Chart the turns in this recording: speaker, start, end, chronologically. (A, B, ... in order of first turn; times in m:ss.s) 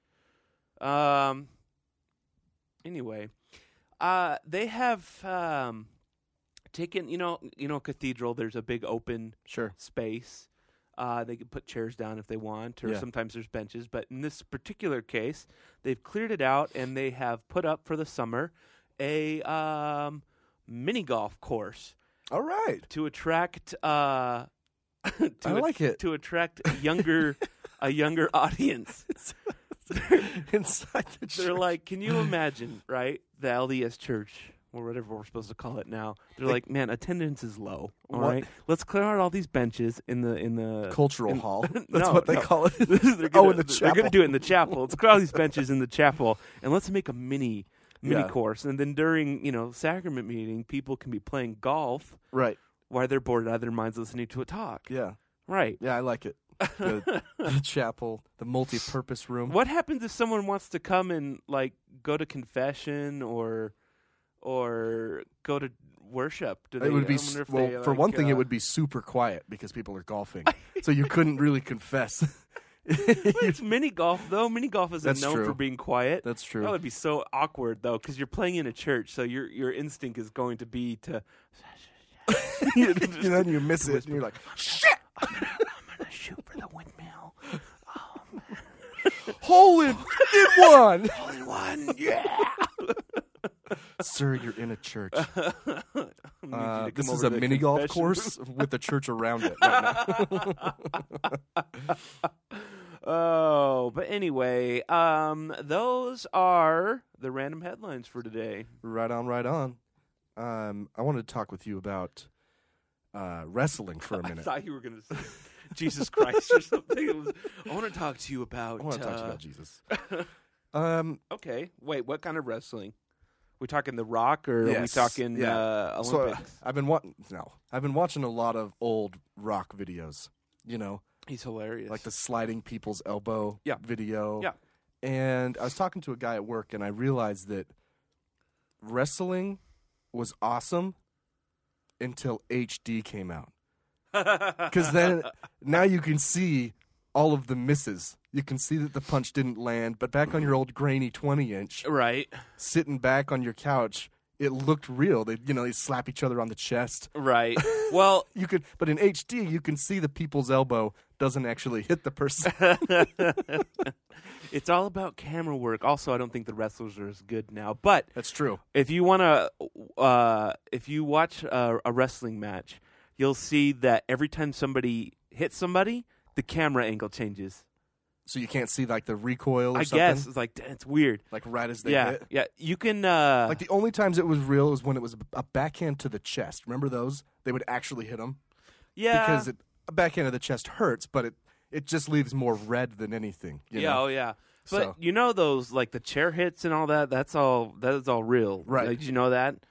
0:00.8-0:01.5 A
0:02.8-0:03.3 A
0:04.0-0:05.9 A
0:06.7-0:21.9 A
0:09.5-0:09.7 B
0:22.3-0:22.9 B
0:22.9-0:24.5 A
0:25.0-0:29.2 A
0:25.4-0:26.0 B
0:29.9-0:30.3 A
0:29.9-0:32.3 B
0:31.3-0:52.2 A
0:38.1-0:38.5 B
0:40.9-0:45.6 B
0:48.0-0:48.3 B
0:52.3-0:52.6 B
0:52.9-0:54.9 A
0:54.9-0:55.2 B
0:55.5-0:55.8 A
0:55.8-0:59.6 B
0:56.6-0:57.5 A
0:59.5-1:03.7 A
1:04.4-1:08.5 A
1:06.8-1:13.6 B
1:10.5-1:10.8 A
1:13.0-1:24.6 A
1:15.0-1:15.6 B
1:16.2-1:16.7 B
1:22.3-1:25.5 B
1:25.2-1:27.4 A
1:27.9-1:29.3 A
1:29.3-1:31.2 B
1:30.1-1:33.2 A
1:34.0-1:35.3 B
1:35.1-1:38.7 A
1:36.5-1:41.3 B
1:39.4-1:48.7 A
1:48.8-1:49.8 B
1:50.4-1:52.3 B
1:53.1-1:54.5 B
1:54.1-2:00.3 A
1:56.1-1:56.6 B
1:58.8-1:59.8 B
2:00.7-2:01.2 B
2:01.3-2:02.9 A
2:03.6-2:06.6 A
2:04.6-2:11.0 B
2:11.3-2:12.1 A
2:11.9-2:14.5 B
2:15.0-2:17.7 B
2:18.8-2:19.6 B
2:20.1-2:21.0 B
2:22.0-2:23.5 B
2:24.1-2:25.1 A
2:24.6-2:31.9 B
2:31.8-2:32.4 A
2:32.6-2:43.1 B
2:37.1-2:38.3 A
2:42.4-2:48.1 A
2:48.1-2:48.6 B
2:48.7-2:57.6 A
2:58.2-3:00.3 B
2:59.7-3:01.2 A
3:01.3-3:02.2 B
3:01.8-3:03.6 A
3:03.5-3:08.4 B
3:09.0-3:09.5 A
3:09.1-3:14.0 B
3:13.7-3:19.6 A
3:14.7-3:15.0 B
3:18.6-3:19.0 B